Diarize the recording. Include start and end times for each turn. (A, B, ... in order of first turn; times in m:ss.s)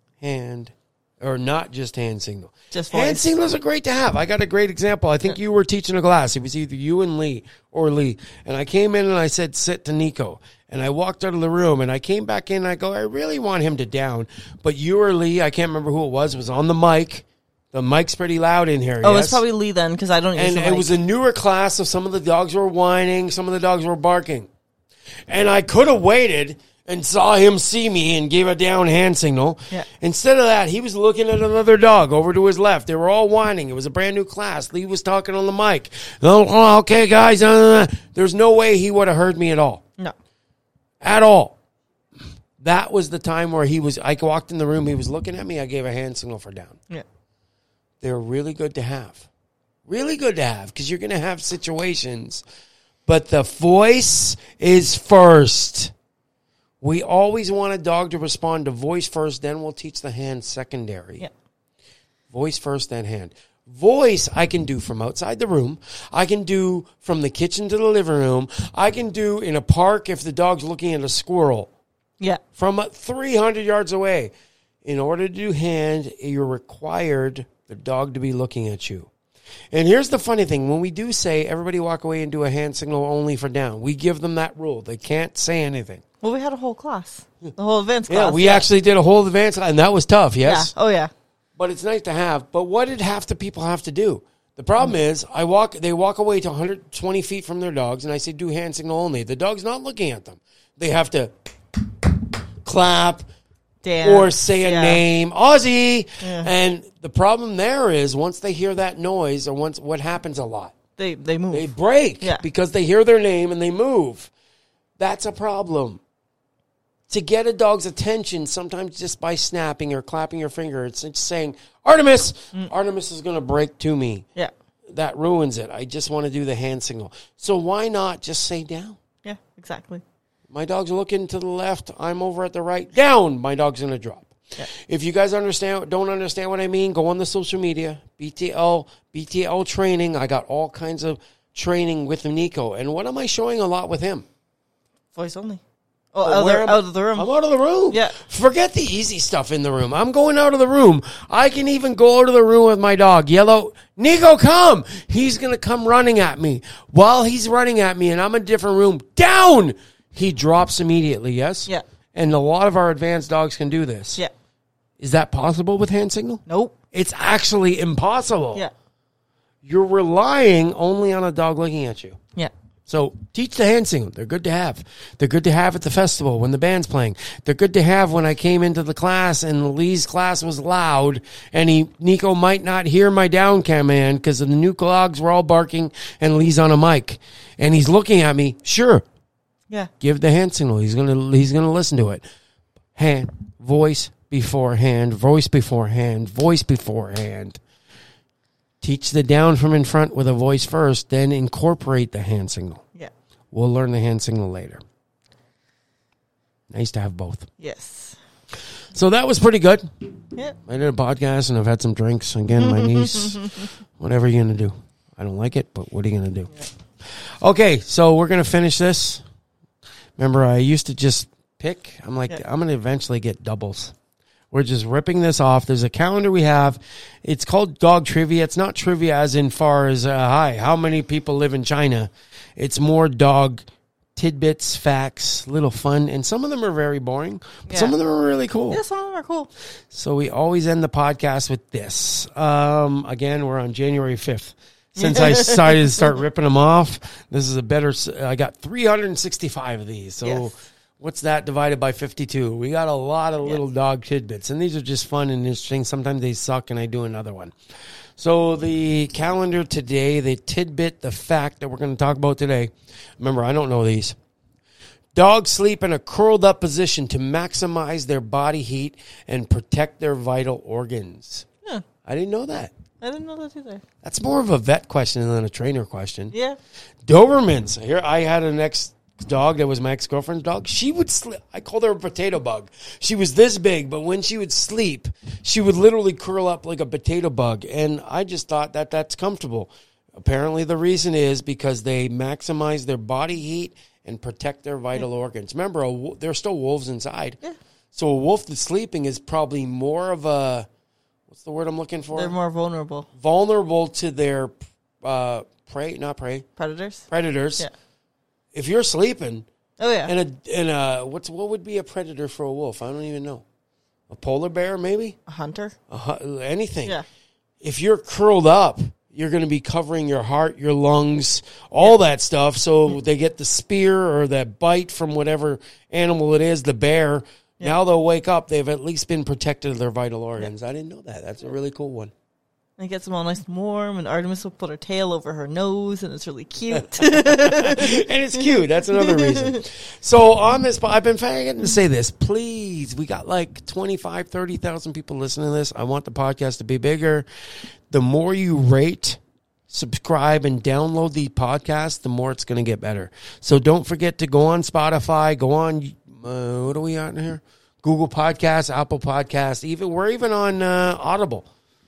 0:00.2-0:19.4 A
0:02.7-0:03.3 B
0:19.0-0:20.9 B
0:20.4-0:24.5 A
0:25.3-0:39.8 A
0:41.0-0:41.6 A
0:42.6-0:46.8 A
0:48.0-0:49.3 A
0:49.9-0:52.4 A
0:53.1-0:55.9 A
0:56.8-1:01.2 A
1:02.3-1:11.7 A
1:12.6-1:14.3 A
1:14.8-1:19.1 A
1:19.7-1:26.0 A
1:26.2-1:28.7 B
1:28.1-1:30.7 A
1:30.4-1:31.1 B
1:31.6-1:41.3 A
1:42.6-1:43.2 A
1:43.8-1:45.0 B
1:44.0-1:50.7 A
1:46.2-1:46.5 B
1:51.0-1:51.7 B
1:51.5-1:54.3 A
1:55.0-1:56.0 A
1:57.1-2:04.3 A
2:04.9-2:09.0 A
2:09.2-2:10.0 B
2:10.5-2:24.2 A
2:25.2-2:25.6 B
2:26.1-2:27.3 B
2:26.2-2:44.2 A
2:27.9-2:28.2 B
2:45.0-2:48.6 A
2:46.5-2:46.7 B
2:49.6-2:52.2 A
2:52.9-3:09.0 A
3:10.0-3:12.2 A
3:13.0-3:17.6 A
3:18.8-3:22.8 A
3:23.5-3:24.8 A
3:26.7-3:27.5 A
3:27.6-3:28.2 B
3:28.9-3:29.9 A
3:30.6-3:39.2 A
3:32.8-3:33.4 B
3:40.2-3:43.9 A
3:44.5-3:53.6 A
3:54.2-3:58.8 A
3:57.7-3:57.9 B
3:58.7-3:59.5 B
3:59.9-4:17.5 A
4:05.0-4:06.0 B
4:10.2-4:10.5 B
4:18.2-4:24.2 A
4:25.2-4:31.5 A
4:32.0-4:32.7 A
4:33.0-4:33.8 B
4:34.0-4:36.3 A
4:36.3-4:36.6 B
4:37.0-4:57.4 A
4:57.9-5:00.7 A
5:01.3-5:02.4 A
5:02.1-5:03.1 B
5:03.2-5:06.4 A
5:06.6-5:07.0 B
5:07.1-5:07.6 A
5:08.5-5:09.5 A
5:09.8-5:10.1 B
5:10.1-5:13.4 A
5:14.1-5:15.2 A
5:15.3-5:15.8 B
5:15.9-5:17.0 A
5:17.6-5:32.1 A
5:32.8-5:38.0 B
5:36.7-5:47.3 A
5:39.0-5:39.6 B
5:47.9-6:01.5 A